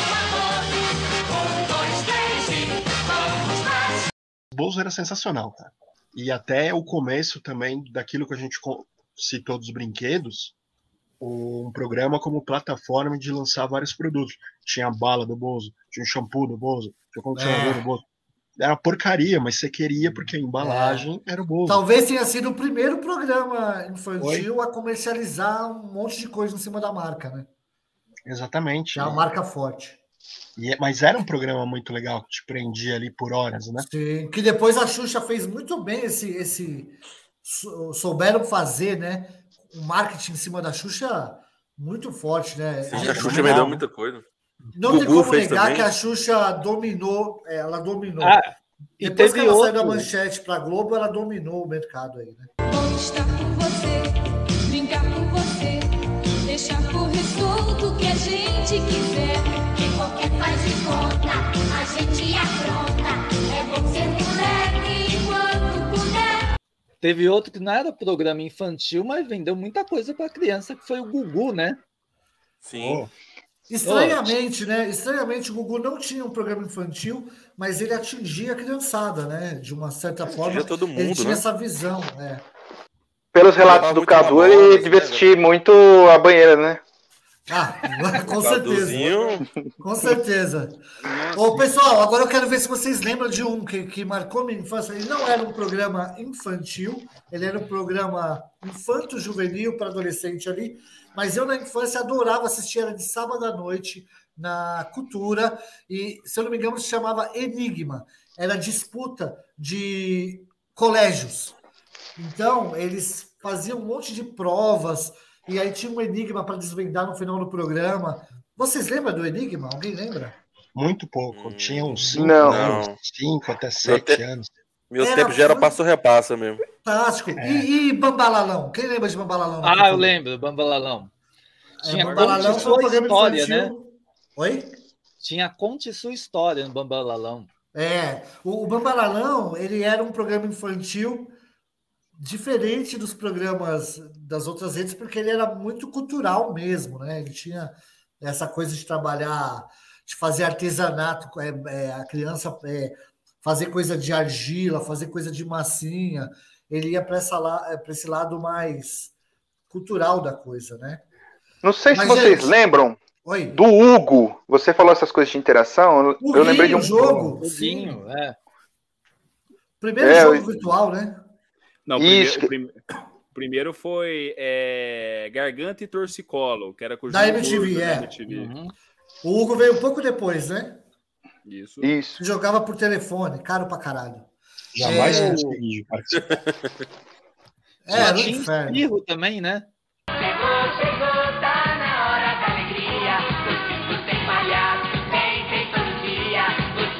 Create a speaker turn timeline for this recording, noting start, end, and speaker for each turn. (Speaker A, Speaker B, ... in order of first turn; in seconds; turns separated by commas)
Speaker A: 4.5-10.5, Speaker A: 11.2-18.0, Speaker B: 17.3-17.9, Speaker A: 18.6-21.8, Speaker B: 20.6-21.1, Speaker B: 21.7-27.5, Speaker A: 24.2-24.5, Speaker A: 28.3-29.2, Speaker B: 28.9-30.0, Speaker A: 30.6-33.9, Speaker B: 33.8-43.8, Speaker C: 42.9-44.2, Speaker A: 42.9-43.8, Speaker B: 44.8-48.4, Speaker C: 44.8-45.9, Speaker D: 48.2-50.1, Speaker B: 49.0-52.5, Speaker E: 52.7-54.1, Speaker E: 54.6-55.9, Speaker E: 56.4-66.5, Speaker D: 67.0-71.8, Speaker C: 72.6-73.0, Speaker A: 72.8-73.1, Speaker B: 73.7-82.4, Speaker D: 73.8-74.4, Speaker C: 80.3-81.4, Speaker F: 83.3-86.8, Speaker C: 83.6-85.3, Speaker B: 87.5-89.2, Speaker C: 88.2-89.4, Speaker B: 89.8-90.8, Speaker G: 91.0-91.8, Speaker B: 91.3-111.5, Speaker B: 112.2-120.3, Speaker A: 120.8-124.5, Speaker C: 121.3-123.0, Speaker F: 122.1-122.8, Speaker C: 123.8-124.2, Speaker C: 124.9-126.6, Speaker B: 125.0-125.7, Speaker B: 126.8-130.2, Speaker A: 127.4-127.7, Speaker D: 129.6-131.1, Speaker B: 131.8-134.7, Speaker D: 131.8-133.7, Speaker C: 131.9-132.6, Speaker D: 135.2-137.5, Speaker B: 137.7-141.3, Speaker B: 142.2-159.1, Speaker B: 159.7-161.0, Speaker F: 161.6-166.9, Speaker B: 161.9-162.6, Speaker B: 163.2-163.6, Speaker B: 166.2-168.0, Speaker A: 166.9-167.3, Speaker D: 167.4-168.4, Speaker B: 169.8-171.2, Speaker F: 170.0-170.5, Speaker G: 171.9-172.8, Speaker F: 172.0-172.5, Speaker G: 173.3-178.5, Speaker B: 177.1-178.1, Speaker D: 178.3-178.7, Speaker B: 179.2-180.8, Speaker G: 181.5-181.9, Speaker F: 181.8-182.2, Speaker B: 182.2-184.3, Speaker A: 184.7-186.3, Speaker B: 184.8-185.4, Speaker D: 184.8-185.6, Speaker C: 186.1-186.5, Speaker B: 187.8-188.9, Speaker D: 187.9-189.7